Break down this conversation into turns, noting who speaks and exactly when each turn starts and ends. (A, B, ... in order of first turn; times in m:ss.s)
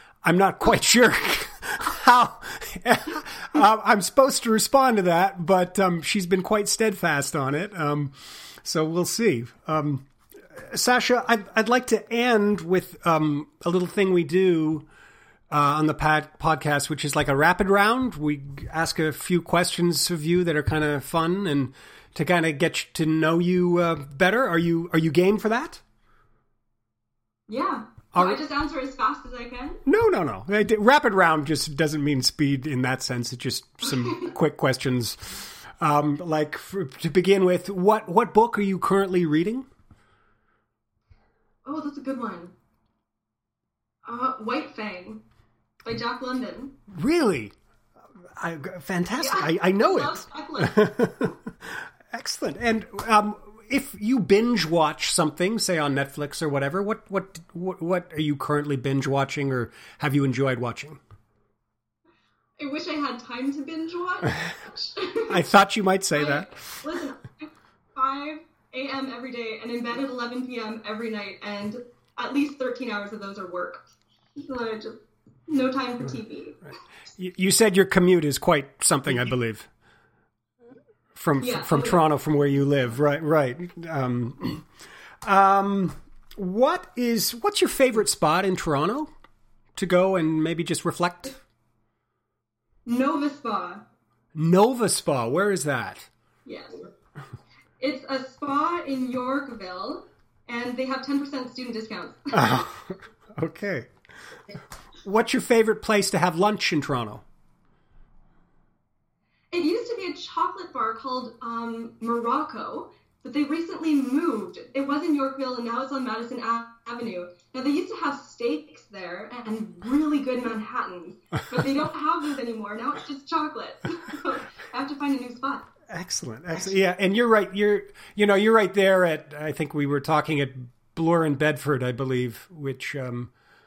0:00.2-0:14.8 A
0:15.5-0:25.8 A
0:27.5-0:29.8 B
0:28.1-0:28.4 A
0:29.8-0:39.6 A
0:41.6-0:42.5 B
0:44.0-0:45.2 B
0:45.8-0:46.8 B
0:46.9-0:47.5 A
0:48.4-1:01.0 A
0:49.2-0:50.9 B
1:02.6-1:05.3 B
1:05.3-1:06.8 A
1:06.1-1:13.8 B
1:14.4-1:16.6 B
1:17.2-1:19.7 A
1:21.1-1:24.7 A
1:21.4-1:22.0 B
1:25.2-1:29.1 A
1:29.8-1:31.4 A
1:32.8-1:33.8 B
1:34.3-1:36.1 A
1:36.4-1:36.7 B
1:37.8-1:42.4 B
1:42.3-1:43.9 A
1:45.0-1:47.2 A
1:49.5-2:05.7 B
2:05.9-2:13.3 A